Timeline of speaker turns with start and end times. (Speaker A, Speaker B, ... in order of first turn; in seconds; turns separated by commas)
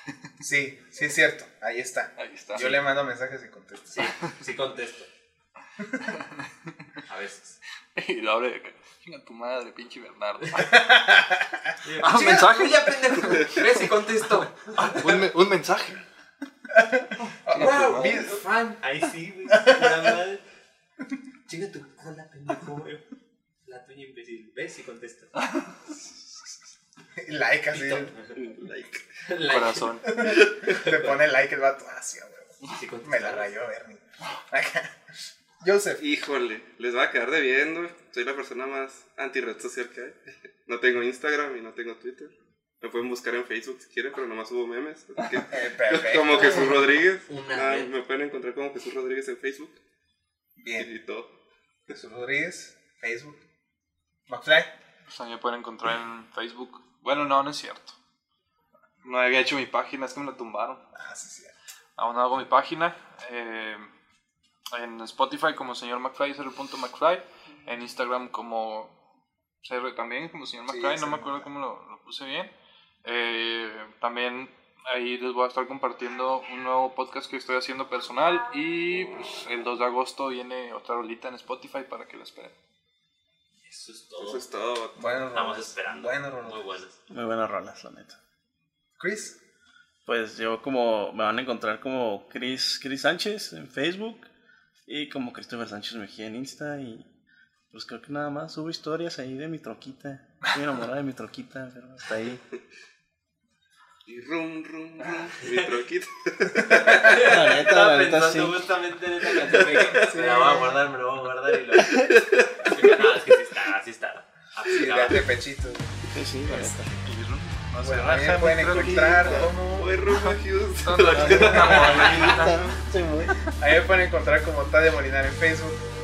Speaker A: 0.4-3.9, Speaker B: 2.2-2.8, Speaker C: 3.9-5.1, Speaker C: 7.0-7.6, Speaker B: 8.0-10.7, Speaker A: 10.5-11.6, Speaker C: 11.8-15.2, Speaker B: 12.0-13.9, Speaker B: 14.7-16.0, Speaker A: 16.7-18.4, Speaker C: 17.4-20.4, Speaker B: 17.5-18.2, Speaker A: 19.5-20.2, Speaker C: 21.4-23.0, Speaker C: 23.6-25.4, Speaker A: 27.2-28.2, Speaker C: 27.7-28.4, Speaker D: 28.4-29.1, Speaker C: 29.2-31.1, Speaker B: 29.4-30.0, Speaker A: 30.0-35.0, Speaker C: 32.7-33.5, Speaker A: 35.6-36.0, Speaker D: 36.0-49.8, Speaker A: 45.5-46.8, Speaker C: 47.2-47.9, Speaker A: 50.6-50.9, Speaker D: 50.8-51.3, Speaker A: 51.9-53.4, Speaker A: 54.3-54.7, Speaker B: 55.1-58.0, Speaker B: 59.0-60.8, Speaker A: 60.9-61.5, Speaker B: 62.0-63.9, Speaker B: 64.7-69.0, Speaker B: 69.6-72.5, Speaker A: 70.7-71.5, Speaker B: 73.0-82.5, Speaker C: 83.7-84.5, Speaker D: 84.2-85.0, Speaker A: 85.0-86.6, Speaker C: 85.3-87.0, Speaker E: 87.1-88.2, Speaker A: 89.0-89.4, Speaker E: 90.0-94.3, Speaker E: 94.8-97.1, Speaker E: 97.7-102.4, Speaker D: 104.0-107.3, Speaker C: 105.4-105.7, Speaker C: 106.6-115.3, Speaker E: 107.1-108.6, Speaker D: 109.4-110.2, Speaker A: 110.0-110.8, Speaker D: 112.0-112.8, Speaker A: 114.7-116.8, Speaker E: 116.1-116.9, Speaker B: 117.0-119.5, Speaker A: 117.8-119.9, Speaker E: 118.1-119.5, Speaker D: 119.8-122.3, Speaker B: 120.1-123.3, Speaker E: 121.1-123.3, Speaker C: 121.7-122.2, Speaker A: 123.6-125.8